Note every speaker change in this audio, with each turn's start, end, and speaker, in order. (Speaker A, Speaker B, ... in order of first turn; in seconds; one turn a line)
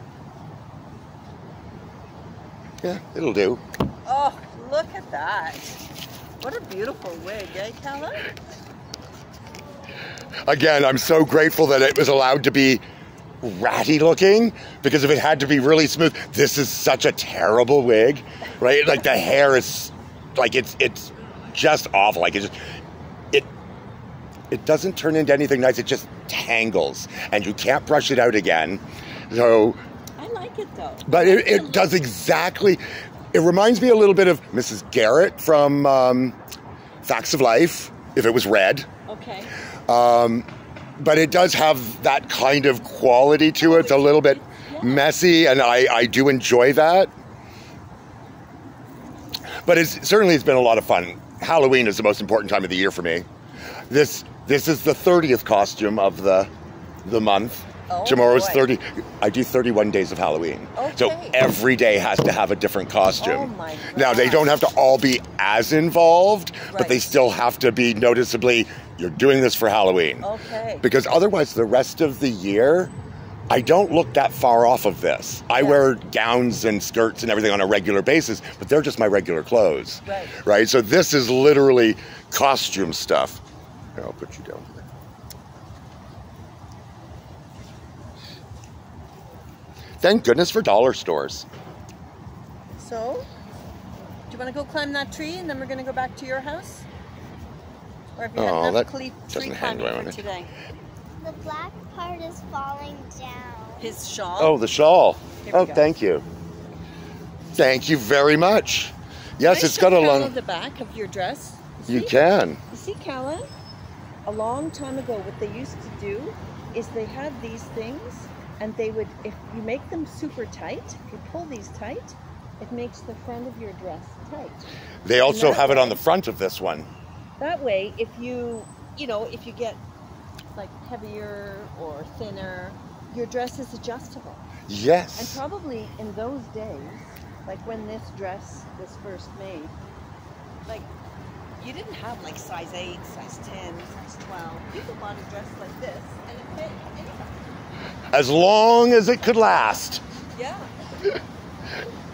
Speaker A: 2.8-3.6
Speaker B: 4.0-5.7
Speaker B: 6.4-8.3
Speaker A: 10.4-12.8
Speaker A: 13.4-22.6
Speaker A: 24.5-29.8
Speaker B: 30.2-32.0
Speaker A: 31.1-36.4
Speaker A: 37.0-38.9
Speaker B: 39.1-39.5
Speaker A: 39.9-40.5
Speaker A: 41.0-47.1
Speaker B: 43.6-45.1
Speaker A: 49.6-53.2
Speaker A: 53.9-56.5
Speaker A: 57.0-70.2
Speaker B: 57.9-58.7
Speaker B: 60.8-61.4
Speaker B: 63.2-64.6
Speaker B: 66.7-67.1
Speaker B: 70.2-70.8
Speaker A: 70.8-72.9
Speaker A: 73.5-83.4
Speaker B: 75.5-75.9
Speaker B: 80.1-80.4
Speaker A: 84.0-84.9
Speaker A: 90.0-91.5
Speaker B: 92.8-93.3
Speaker B: 94.3-96.9
Speaker B: 98.2-100.5
Speaker A: 98.4-100.2
Speaker C: 101.2-103.9
Speaker B: 103.8-104.6
Speaker A: 104.4-106.2
Speaker B: 105.4-105.9
Speaker A: 107.5-110.3
Speaker B: 109.4-112.1
Speaker A: 111.9-112.6
Speaker B: 112.7-113.5
Speaker B: 114.2-124.6
Speaker A: 125.0-126.9
Speaker B: 125.2-126.0
Speaker B: 127.4-129.8
Speaker B: 130.6-134.4
Speaker A: 134.7-135.4
Speaker B: 135.2-139.7
Speaker B: 141.6-147.3
Speaker A: 148.1-150.0
Speaker B: 150.3-150.7